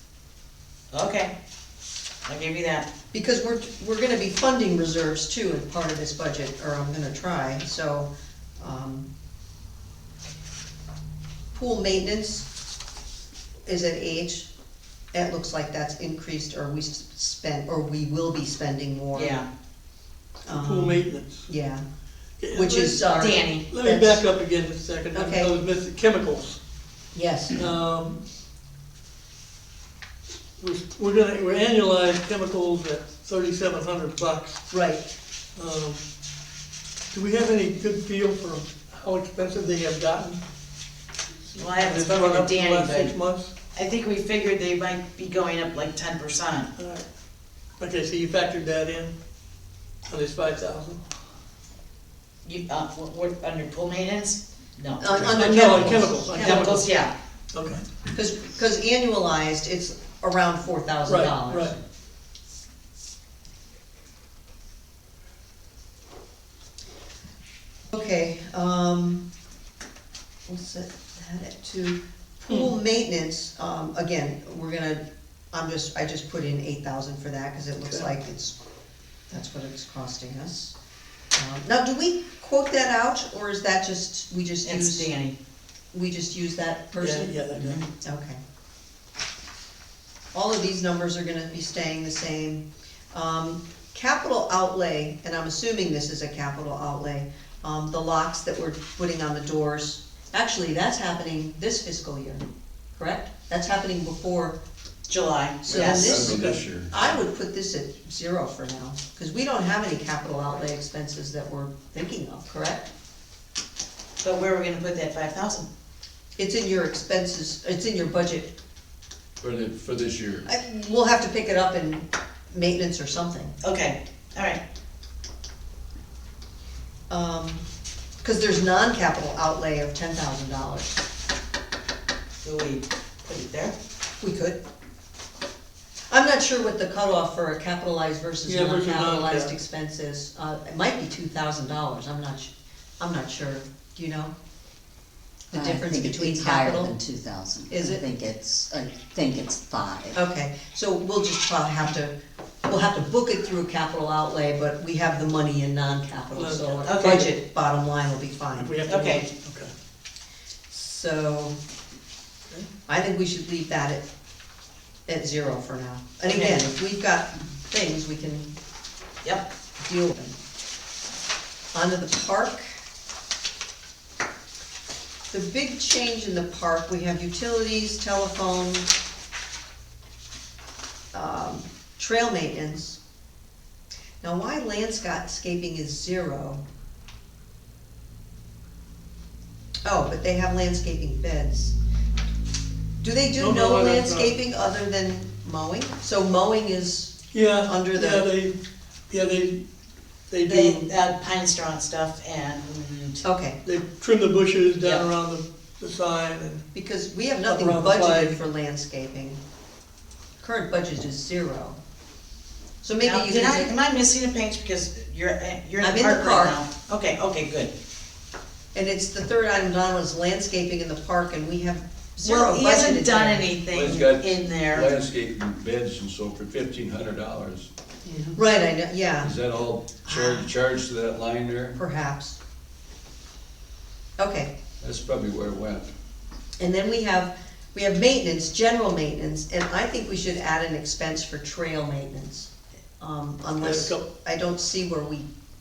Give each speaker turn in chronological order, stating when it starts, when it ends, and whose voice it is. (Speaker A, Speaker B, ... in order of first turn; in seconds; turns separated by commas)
Speaker A: 0.9-1.3, Speaker A: 2.3-2.9, Speaker B: 3.1-9.1, Speaker B: 11.5-12.5, Speaker B: 13.7-14.5, Speaker B: 15.1-19.4, Speaker A: 19.1-19.4, Speaker C: 20.5-21.5, Speaker B: 20.5-21.8, Speaker C: 22.4-23.1, Speaker B: 22.5-24.2, Speaker A: 23.1-23.7, Speaker C: 23.7-26.6, Speaker B: 25.1-25.5, Speaker B: 27.1-27.6, Speaker C: 27.5-28.2, Speaker C: 30.6-34.7, Speaker B: 34.7-35.0, Speaker C: 35.6-36.0, Speaker C: 37.1-40.4, Speaker A: 41.5-43.1, Speaker C: 41.6-43.5, Speaker A: 43.7-46.7, Speaker C: 46.8-47.1, Speaker C: 47.8-49.1, Speaker C: 50.1-51.0, Speaker A: 52.5-55.7, Speaker B: 55.0-56.5, Speaker C: 55.1-56.9, Speaker A: 56.3-57.1, Speaker C: 57.5-57.8, Speaker B: 58.1-61.8, Speaker C: 61.1-61.8, Speaker B: 67.9-69.2, Speaker B: 70.5-78.6, Speaker C: 77.8-78.1, Speaker B: 79.3-80.8, Speaker B: 81.3-85.1, Speaker A: 84.7-85.4, Speaker B: 85.9-87.4, Speaker C: 87.0-87.8, Speaker A: 87.5-87.9, Speaker B: 88.0-88.4, Speaker B: 90.3-104.6, Speaker A: 105.1-106.3, Speaker B: 105.7-112.9, Speaker D: 105.7-107.2, Speaker C: 106.2-106.6, Speaker A: 114.2-115.7, Speaker B: 116.4-118.5, Speaker D: 119.4-120.4, Speaker B: 120.5-123.5, Speaker A: 123.6-124.6, Speaker B: 127.1-127.7, Speaker B: 128.2-131.0, Speaker A: 132.4-133.7, Speaker B: 134.2-134.6, Speaker B: 136.1-144.3, Speaker C: 138.5-139.5, Speaker E: 145.5-150.2, Speaker B: 145.5-146.9, Speaker B: 147.7-148.1, Speaker B: 150.2-158.7, Speaker C: 156.3-157.3, Speaker A: 156.8-157.3, Speaker C: 158.6-159.7, Speaker A: 158.9-159.3, Speaker B: 160.7-161.6, Speaker B: 162.9-164.1, Speaker B: 165.1-168.5, Speaker A: 166.3-166.7, Speaker B: 169.8-170.4, Speaker B: 171.7-172.7, Speaker B: 175.3-178.9, Speaker B: 181.1-183.0, Speaker B: 184.2-186.6, Speaker B: 189.8-191.8, Speaker B: 193.0-198.3, Speaker C: 193.4-194.3, Speaker C: 197.3-198.6, Speaker C: 199.1-199.6, Speaker C: 200.3-200.9, Speaker A: 200.5-203.2, Speaker B: 203.2-203.6, Speaker C: 203.6-206.7, Speaker A: 204.8-205.1, Speaker B: 206.7-209.4, Speaker C: 207.5-208.4, Speaker B: 210.4-211.8, Speaker B: 212.8-213.8, Speaker A: 213.0-217.7, Speaker B: 215.8-216.6, Speaker B: 218.7-223.5, Speaker A: 222.2-224.9, Speaker D: 223.7-227.7, Speaker B: 228.1-229.3, Speaker D: 229.2-231.8, Speaker B: 230.1-230.5, Speaker B: 231.7-232.4, Speaker B: 234.2-234.5, Speaker D: 234.8-235.9, Speaker B: 236.6-245.3, Speaker C: 243.6-244.1